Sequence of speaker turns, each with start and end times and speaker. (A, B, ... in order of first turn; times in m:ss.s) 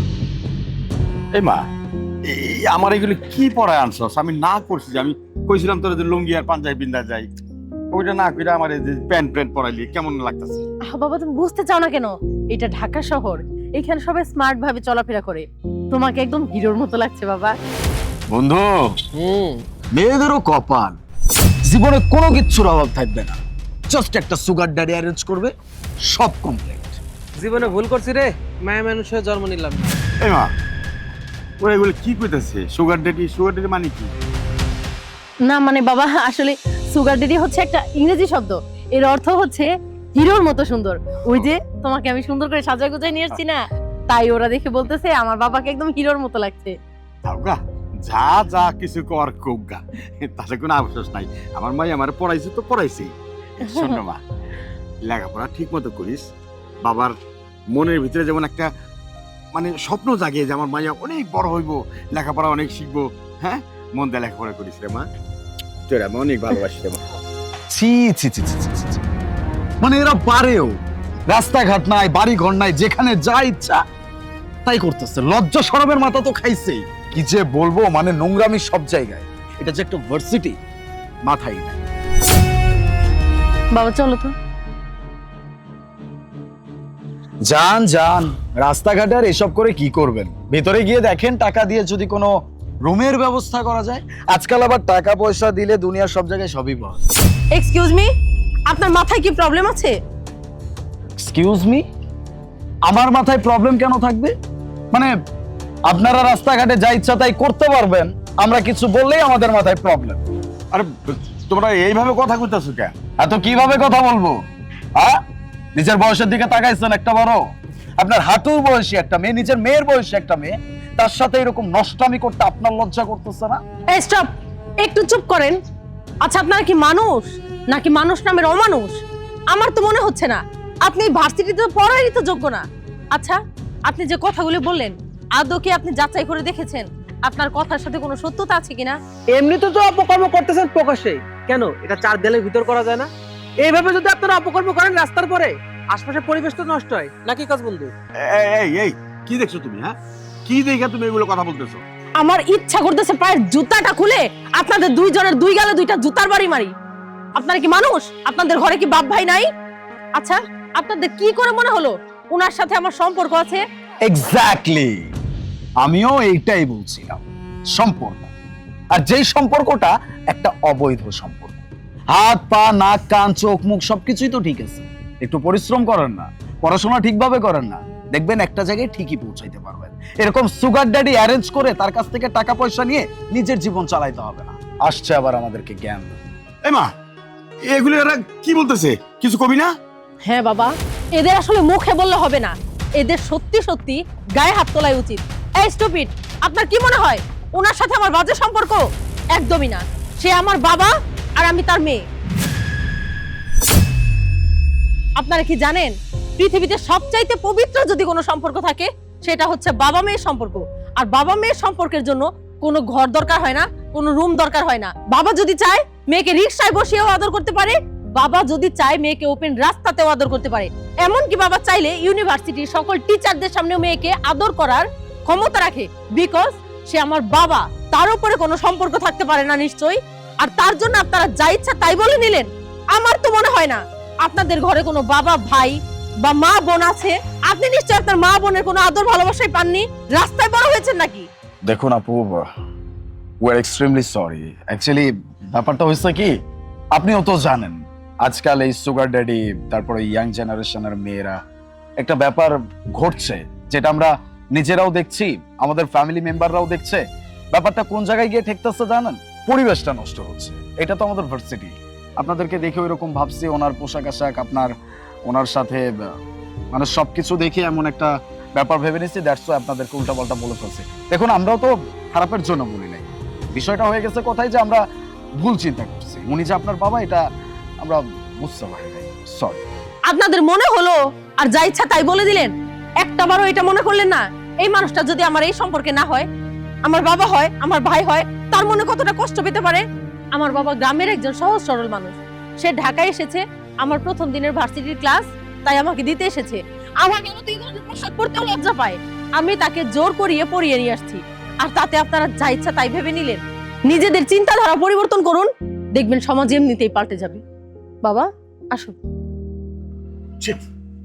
0:01.3-0:01.6 A
0:02.3-0:07.3 A
0:07.9-0:10.6 A
0:10.9-0:17.6 B
0:18.3-0:18.8 C
0:19.2-0:19.6 D
0:19.9-0:21.0 C
0:21.7-0:23.4 C
0:23.9-0:25.5 C
0:26.1-0:27.0 C
0:27.4-0:29.9 D
0:30.2-0:30.5 A
0:31.6-0:34.1 A
0:35.4-0:46.7 B
0:47.2-0:54.2 A
0:53.6-0:54.0 B
0:55.0-0:56.2 A
0:56.8-0:57.1 A
0:57.7-0:58.7 A
0:59.5-1:05.1 A
1:05.9-1:07.0 A
1:07.7-1:09.0 C
1:09.8-1:10.8 C
1:11.3-1:13.8 C
1:14.6-1:20.6 C
1:21.2-1:21.8 C
1:23.7-1:24.3 B
1:27.4-1:32.3 C
1:32.8-1:37.0 C
1:37.5-1:38.1 B
1:38.7-1:40.0 B
1:41.2-1:41.8 C
1:42.8-1:44.3 C
1:45.9-1:50.2 C
1:50.7-1:52.9 A
1:53.2-1:54.4 C
1:55.8-1:57.4 C
1:58.0-2:03.6 C
2:03.9-2:04.3 B
2:04.8-2:05.6 B
2:06.2-2:09.0 B
2:09.5-2:19.0 B
2:19.3-2:23.1 D
2:23.6-2:27.9 D
2:28.2-2:29.9 A
2:30.4-2:31.8 A
2:32.2-2:36.7 B
2:37.4-2:39.5 B
2:40.2-2:43.6 B
2:44.0-2:45.1 C
2:45.8-2:47.2 C
2:47.8-2:48.3 C
2:48.9-3:06.2 C
3:07.7-3:09.7 A
3:10.2-3:22.0 B
3:25.2-4:01.3 B
4:01.6-4:02.5 C
4:03.4-4:06.3 C
4:06.9-4:11.4 C
4:12.0-4:24.7 C
4:25.2-4:26.1 C
4:26.7-4:34.8 C
4:35.4-4:37.2 C
4:37.8-4:39.6 C
4:40.1-4:46.3 B
4:46.8-5:07.4 B
5:08.0-5:09.0 B